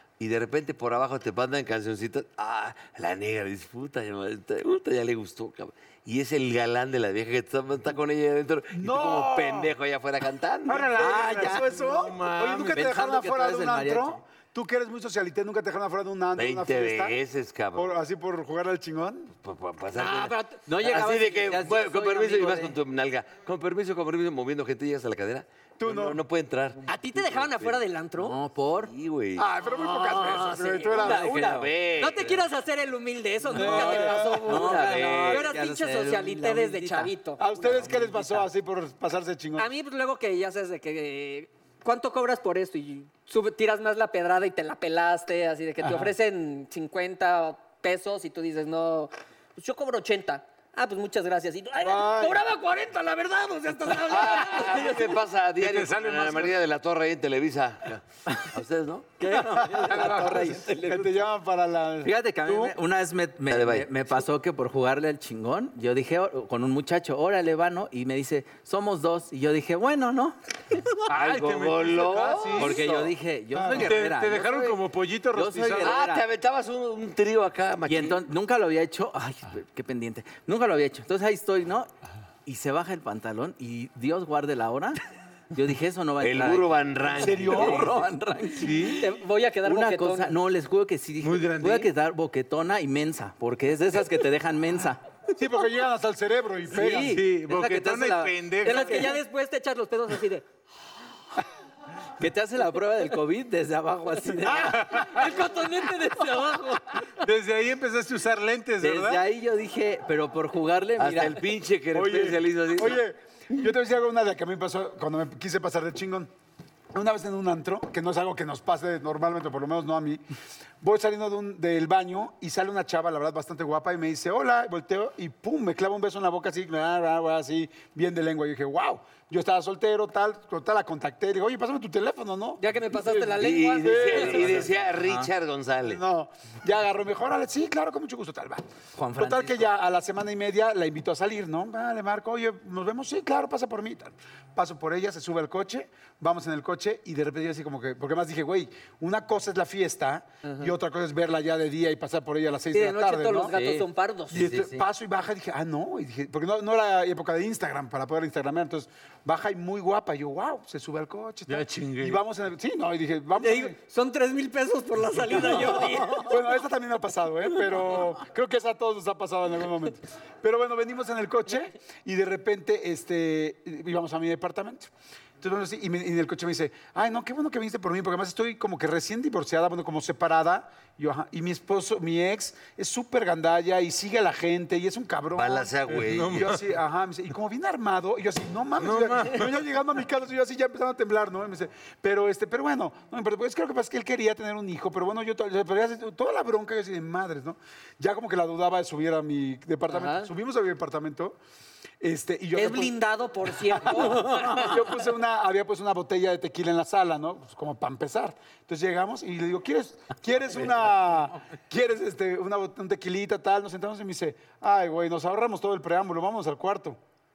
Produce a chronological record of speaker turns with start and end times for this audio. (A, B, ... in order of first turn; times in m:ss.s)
0:00.2-0:11.0 A
0:08.7-0:09.7 B
0:10.7-0:12.9 C
0:10.8-0:17.2 B
0:10.9-0:11.9 D
0:12.5-0:14.2 D
0:16.4-0:17.9 A
0:17.7-0:19.3 B
0:19.4-0:27.8 A
0:19.9-0:20.6 E
0:20.7-0:22.8 D
0:25.8-0:26.2 B
0:26.9-0:28.4 E
0:28.2-0:28.9 D
0:28.8-0:29.5 A
0:29.4-0:31.4 B
0:29.6-0:37.4 E
0:31.0-0:31.7 D
0:31.0-0:32.4 A
0:33.5-0:34.7 B
0:33.5-0:38.5 D
0:33.6-0:35.6 A
0:37.4-0:39.7 B
0:39.6-0:55.2 E
0:51.8-0:52.4 B
0:54.0-0:59.1 A
0:55.6-0:56.6 C
0:58.3-0:58.5 D
0:59.2-1:01.2 D
0:59.5-1:00.6 C
1:00.7-1:02.8 B
1:02.0-1:10.8 D
1:03.5-1:04.2 A
1:11.0-1:12.8 C
1:11.1-1:13.1 A
1:12.5-1:14.8 D
1:13.5-1:13.9 B
1:13.8-1:16.0 C
1:15.3-1:16.3 D
1:15.8-1:18.2 A
1:17.9-1:21.9 D
1:22.5-1:25.0 D
1:25.5-1:26.7 D
1:26.2-1:27.9 A
1:27.2-1:28.0 B
1:27.2-1:29.0 D
1:28.6-1:29.1 C
1:29.0-1:30.4 E
1:29.6-1:35.0 D
1:31.2-1:31.9 C
1:35.3-1:37.2 B
1:36.7-1:39.2 D
1:37.1-1:39.2 C
1:38.6-1:40.5 E
1:42.2-1:45.1 D
1:44.4-1:47.1 E
1:44.8-1:45.2 C
1:47.2-1:49.3 C
1:48.8-1:51.4 D
1:51.0-1:53.0 A
1:51.9-1:56.3 B
1:56.9-2:00.2 B
2:00.8-2:14.8 B
2:12.6-2:14.5 E
2:13.3-2:16.0 A
2:15.0-2:15.3 D
2:15.8-2:18.6 B
2:19.0-2:19.7 D
2:19.2-2:33.5 B
2:30.4-2:30.7 E
2:32.7-2:34.6 E
2:33.5-2:34.9 D
2:34.3-2:43.8 B
2:41.5-2:42.2 C
2:43.4-2:46.6 E
2:45.3-3:21.4 B
3:05.4-3:06.5 A
3:05.9-3:06.7 C
3:08.8-3:09.5 C
3:19.9-3:20.3 E
3:22.0-3:22.9 B
3:22.5-3:24.9 E
3:23.7-3:37.0 B